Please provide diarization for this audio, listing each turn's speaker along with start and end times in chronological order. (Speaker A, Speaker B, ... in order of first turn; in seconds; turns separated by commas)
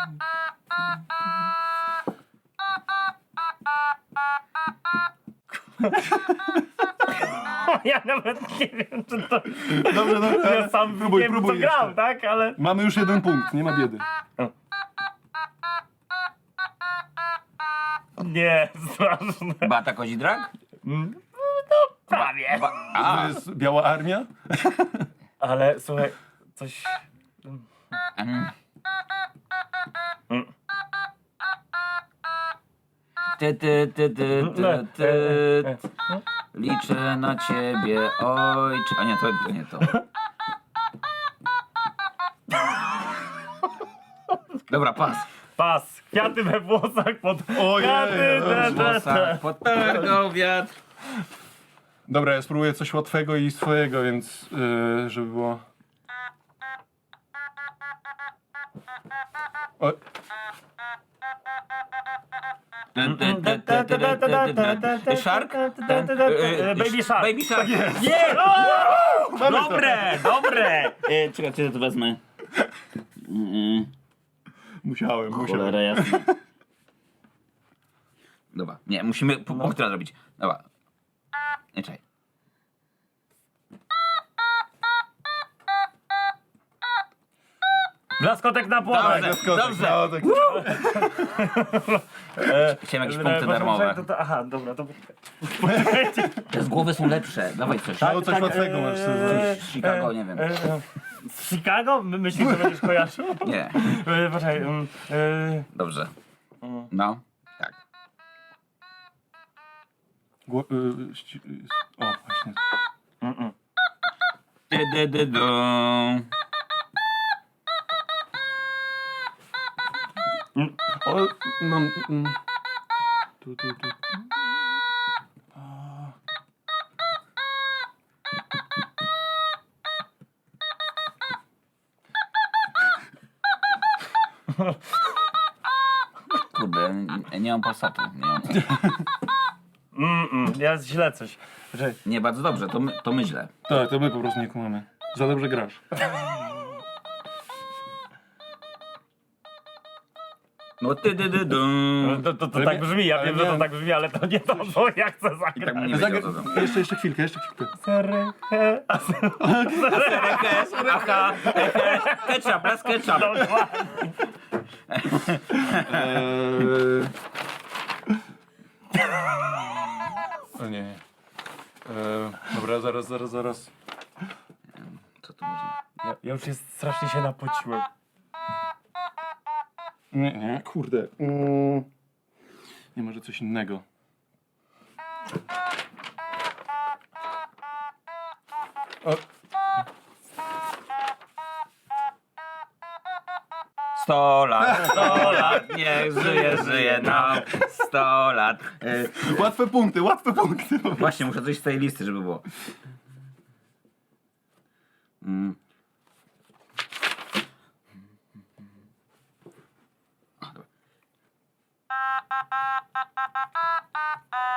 Speaker A: 5.8-6.1, Speaker A: 7.1-12.6, Speaker B: 9.7-12.0, Speaker B: 12.6-14.1, Speaker A: 18.2-19.7, Speaker C: 19.6-20.5, Speaker A: 20.8-22.7, Speaker C: 22.1-23.4, Speaker B: 22.9-25.1, Speaker A: 25.4-27.6, Speaker C: 28.2-28.5, Speaker C: 33.4-35.8, Speaker A: 34.4-35.8, Speaker C: 36.5-40.0, Speaker C: 44.7-45.3, Speaker A: 45.6-49.4, Speaker B: 47.5-48.9, Speaker C: 48.5-50.8, Speaker B: 52.1-55.6, Speaker C: 62.9-67.8, Speaker A: 63.0-71.0, Speaker B: 67.6-70.0, Speaker C: 69.4-72.2, Speaker C: 73.2-73.9, Speaker B: 74.8-76.4, Speaker C: 75.3-75.8, Speaker A: 75.7-76.2, Speaker C: 78.5-80.6, Speaker A: 79.5-79.8, Speaker C: 81.7-82.0, Speaker A: 88.2-89.5, Speaker C: 88.9-90.3, Speaker B: 88.9-91.3, Speaker A: 90.4-96.5, Speaker C: 92.8-94.0, Speaker C: 96.5-98.1, Speaker B: 98.0-99.5, Speaker A: 98.0-105.7, Speaker C: 99.2-100.5, Speaker B: 102.4-102.7, Speaker C: 103.4-103.9, Speaker C: 105.7-106.1, Speaker A: 106.6-106.9, Speaker C: 106.9-107.8, Speaker B: 110.5-112.6, Speaker A: 113.2-113.5, Speaker C: 114.7-116.3, Speaker B: 121.0-122.4, Speaker B: 123.4-124.0, Speaker B: 125.6-126.1, Speaker C: 136.3-138.6, Speaker B: 138.6-139.0, Speaker A: 139.9-142.0, Speaker C: 142.1-143.5, Speaker B: 143.7-145.8, Speaker C: 150.8-152.3, Speaker A: 152.0-155.9, Speaker B: 152.5-153.7, Speaker C: 155.6-156.7, Speaker B: 155.8-157.7, Speaker A: 157.8-164.2, Speaker B: 159.4-160.0, Speaker C: 160.0-163.4, Speaker C: 164.9-166.1, Speaker B: 165.7-167.1, Speaker B: 170.6-171.0, Speaker B: 171.9-173.7, Speaker C: 174.8-175.8, Speaker A: 176.0-177.9, Speaker B: 180.1-181.9, Speaker B: 182.9-183.8, Speaker C: 193.9-199.2, Speaker B: 194.6-197.4, Speaker A: 194.9-195.6, Speaker B: 199.1-201.2, Speaker C: 200.9-202.4, Speaker C: 205.2-205.6